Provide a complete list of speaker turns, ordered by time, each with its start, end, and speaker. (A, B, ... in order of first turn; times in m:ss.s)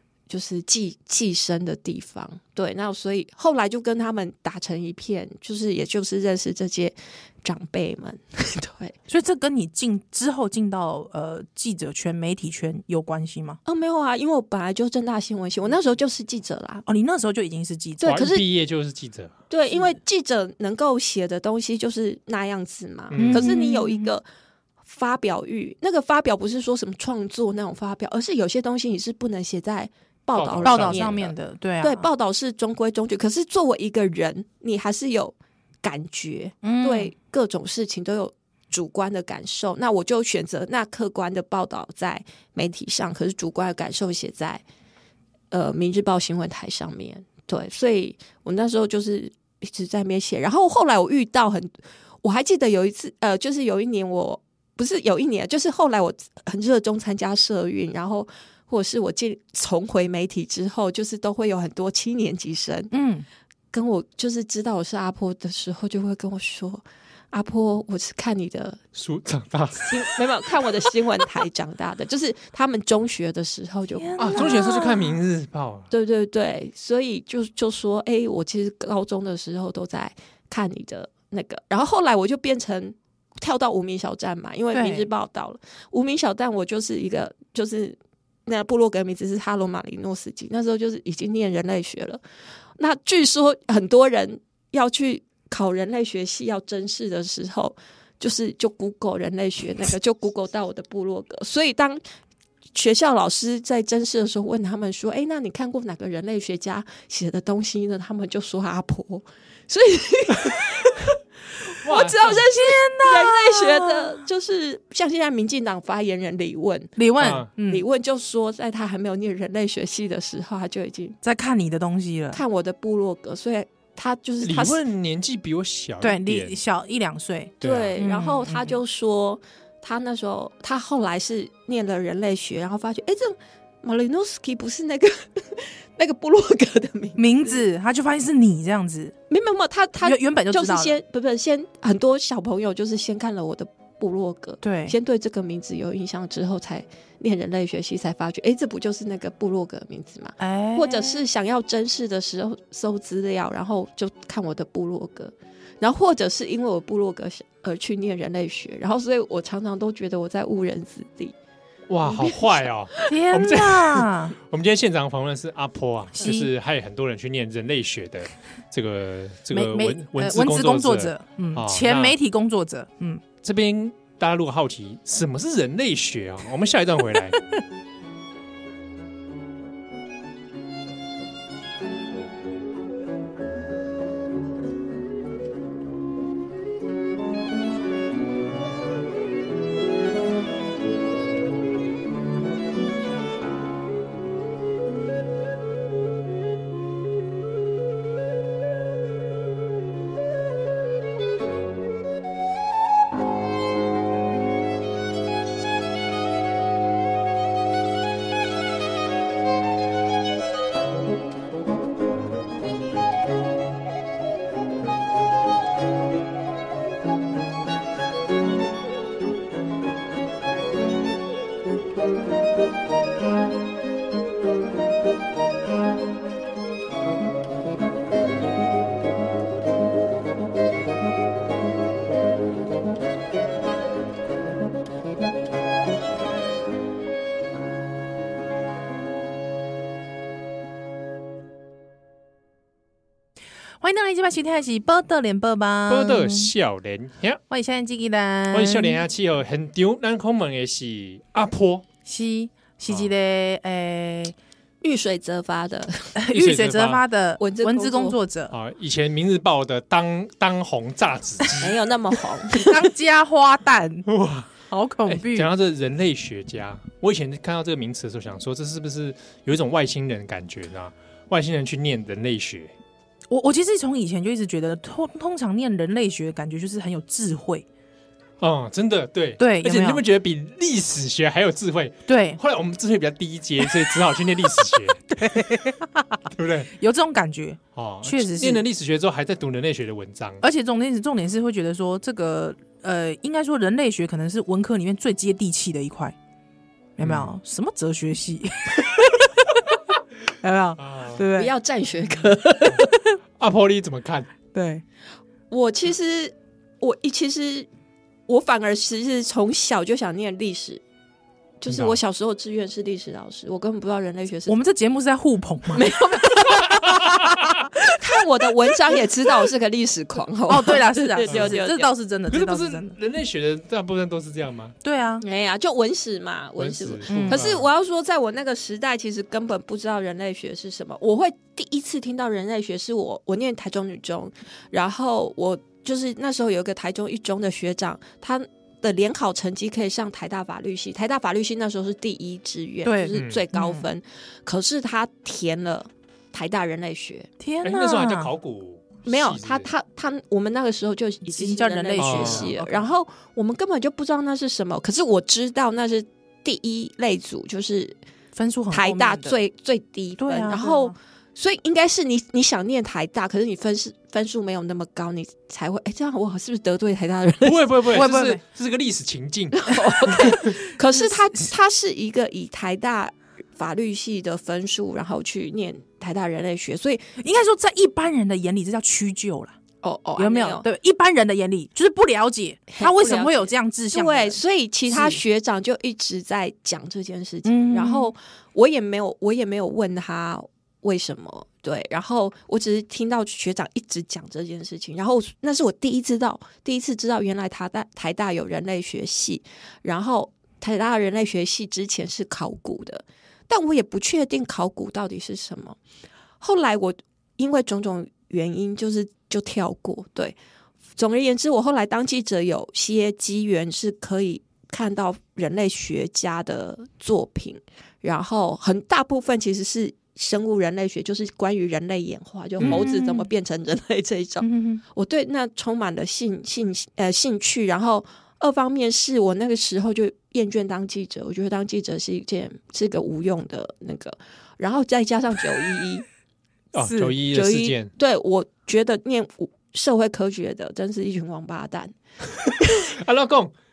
0:00.3-0:08.9 A
0:09.1-0:13.6 B
0:13.6-0:16.8 A
0:16.8-0:18.3 B
0:18.0-0:18.4 A
0:18.0-0:19.4 C
0:19.5-0:24.2 A
0:23.1-0:23.5 C
0:23.2-0:24.1 B
0:24.8-0:44.6 A
0:30.3-0:31.2 C
0:30.6-0:32.1 B
0:36.6-0:37.1 B
0:45.5-0:51.7 A
0:52.2-1:02.9 A
1:02.9-1:03.2 B
1:03.7-1:08.8 A
1:08.9-1:10.9 C
1:09.8-1:14.6 A
1:14.0-1:15.2 B
1:14.2-1:15.9 C
1:15.9-1:32.2 A
1:24.7-1:25.1 B
1:32.8-1:42.0 A
1:42.7-1:56.9 A
1:51.8-1:52.4 C
1:52.0-1:54.2 B
1:57.0-1:57.8 B
1:57.2-1:57.5 C
1:57.7-2:01.2 A
2:01.2-2:02.4 B
2:02.3-2:04.8 A
2:04.4-2:06.6 C
2:06.0-2:08.8 B
2:07.6-2:08.0 C
2:07.6-2:17.6 A
2:17.2-2:19.1 B
2:19.3-2:41.3 A
2:20.0-2:21.0 B
2:24.6-2:24.9 B
2:30.4-2:31.2 B
2:41.9-2:52.1 C
2:42.0-2:43.0 A
2:43.1-2:44.4 B
2:46.2-2:46.5 B
2:49.5-2:53.2 B
2:53.4-2:57.4 C
4:03.8-4:06.5 B
4:05.9-4:07.4 C
4:07.5-4:09.0 B
4:08.5-4:11.8 C
4:12.0-4:14.4 B
4:14.8-4:16.1 A
4:16.1-4:18.5 B
4:16.3-4:17.0 C
4:17.4-4:18.2 A
4:18.5-4:21.7 C
4:21.6-4:22.9 A
4:22.5-4:24.1 B
4:24.1-4:24.5 C
4:24.7-4:25.5 B
4:25.1-4:32.7 C
4:33.3-4:37.6 B
4:38.4-4:45.0 C
4:39.4-4:40.0 B
4:42.1-4:42.4 B
4:45.1-4:48.6 B
4:46.4-4:46.7 C
4:47.7-4:50.4 C
4:50.4-4:56.1 B
4:57.0-4:59.6 B
4:57.0-4:57.3 C
5:00.4-5:01.5 B
5:00.8-5:01.3 C
5:01.3-5:02.8 A
5:03.4-5:04.3 C
5:04.5-5:04.8 B
5:05.5-5:07.7 A
5:08.3-5:10.8 A
5:11.6-5:14.6 A
5:11.7-5:12.0 C
5:14.5-5:18.0 B
5:15.7-5:17.0 A
5:16.7-5:17.5 C
5:17.8-5:21.9 A
5:20.5-5:22.9 B
5:21.3-5:21.6 C
5:22.3-5:24.8 C
5:24.8-5:25.2 B
5:25.2-5:47.3 A
5:26.6-5:27.7 C
5:27.1-5:27.4 B
5:42.8-5:43.8 B
5:43.1-5:43.4 C
5:47.4-5:48.3 B
5:47.6-5:49.7 C
5:49.0-5:58.0 A
5:51.3-5:52.9 B
5:52.0-5:52.5 C
5:58.3-5:59.4 B
5:58.7-6:08.0 A
6:00.2-6:00.9 B
6:07.4-6:10.6 C
6:07.9-6:08.4 B
6:09.6-6:17.2 A
6:17.2-6:19.6 B
6:19.8-6:20.6 A
6:20.2-6:25.2 B
6:22.7-6:45.8 A
6:27.4-6:28.1 B
6:46.4-6:50.4 A
6:51.0-7:16.0 A
7:02.6-7:02.9 C
7:02.6-7:03.3 B
7:04.4-7:04.8 B
7:16.7-7:17.9 C
7:16.8-7:17.2 B
7:17.3-7:21.9 A
7:22.4-7:23.5 C